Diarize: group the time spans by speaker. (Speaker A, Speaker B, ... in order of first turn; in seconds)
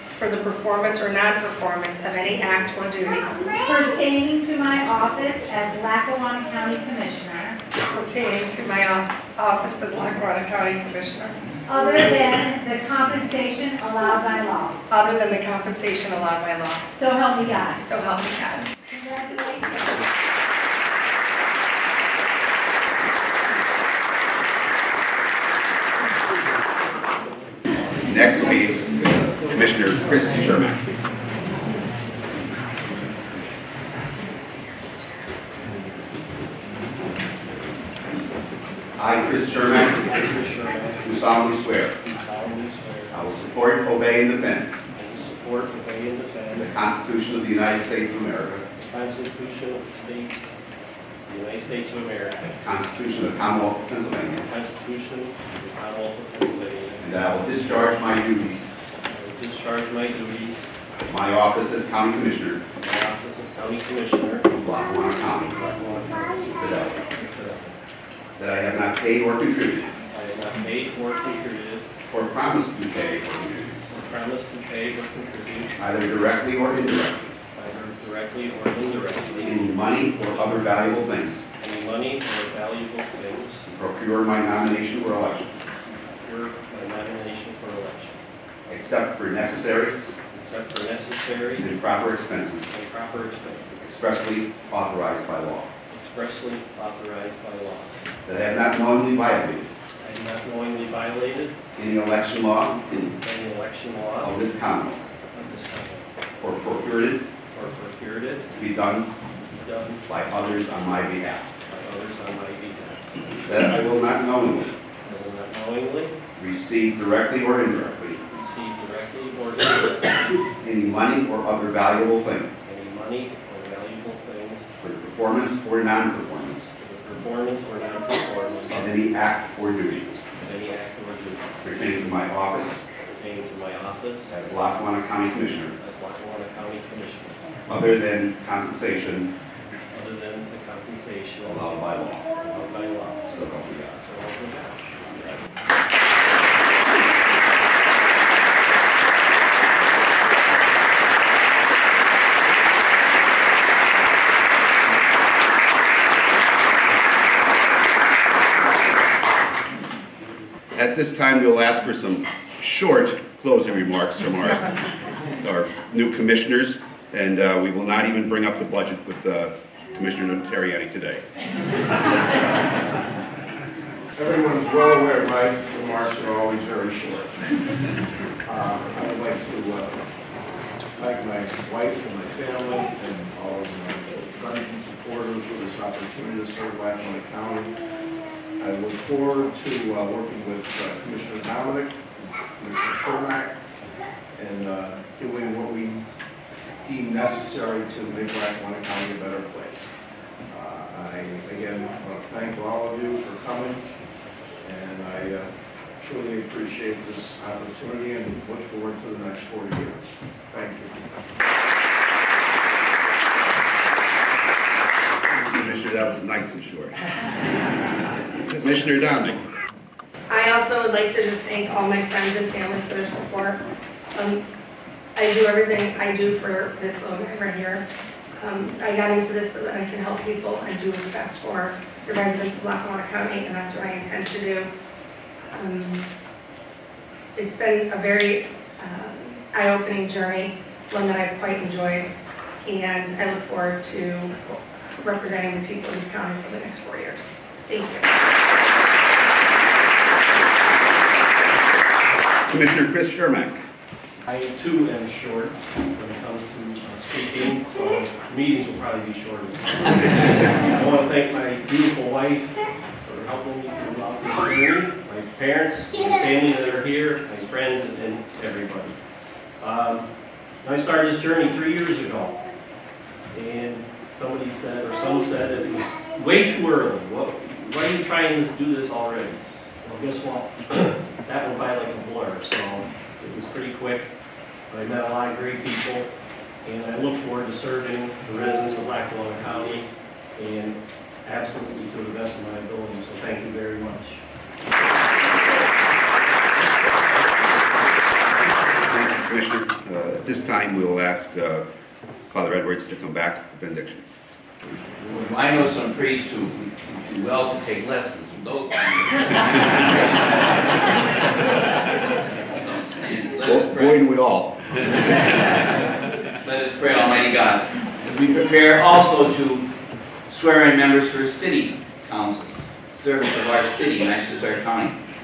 Speaker A: 0.2-3.4, 7.9-11.4, 14.9-16.9, 17.8-18.7, 220.3-223.6, 224.1-224.4, 225.2-227.8, 228.3-234.7, 235.5-236.0, 237.4-242.1, 242.7-248.1
Speaker B: 3.6-7.6, 11.7-14.8, 16.9-17.9
Speaker C: 27.9-30.8, 39.0-40.3, 41.0-42.0, 43.1-44.8, 46.5-48.6, 52.6-54.4, 57.0-58.6, 61.1-62.6, 64.6-65.5, 66.5-67.0, 68.4-69.9, 72.1-73.8, 75.8-77.3, 79.4-81.4, 83.7-85.5, 88.7-90.0, 91.6-92.7, 93.8-95.7, 98.3-99.7, 101.8-103.0, 104.2-105.0, 106.4-107.2, 108.5-109.1, 110.1-111.5, 113.5-114.7, 116.4-118.2, 120.6-122.5, 124.8-126.7, 128.7-130.2, 131.6-132.8, 134.3-135.7, 137.7-139.3, 141.4-142.3, 143.3-144.0, 160.7-164.7, 165.4-171.2, 215.3-217.0, 218.4-219.4, 252.5-253.6, 298.7-301.6, 302.3-304.0, 313.4-314.6
Speaker D: 39.8-41.5, 42.0-43.2, 45.0-46.7, 48.8-50.4, 51.3-52.4, 54.5-57.2, 59.1-60.6, 62.8-64.5, 65.5-67.8, 70.1-71.9, 73.9-75.7, 77.5-79.7, 81.6-83.6, 86.1-88.2, 90.3-91.7, 92.7-93.7, 95.9-98.0, 100.0-101.5, 103.2-104.4, 105.3-106.0, 107.5-108.5, 109.6-110.0, 111.7-113.0, 115.0-116.2, 118.3-120.4, 122.7-124.7, 126.8-128.9, 130.4-131.5, 133.2-134.3, 135.8-137.4, 139.9-141.7, 142.4-143.5, 144.0-145.3, 254.3-269.0, 269.6-270.1, 270.6-272.4, 273.3-284.1, 284.7-286.1, 286.6-294.2
Speaker E: 174.2-177.4, 178.4-180.0, 181.0-187.8, 188.6-192.0, 192.6-193.5, 194.3-196.0, 196.7-199.9, 200.5-203.8, 204.6-211.1
Speaker F: 305.1-310.9, 312.1-314.0, 316.4-319.7, 320.3-325.0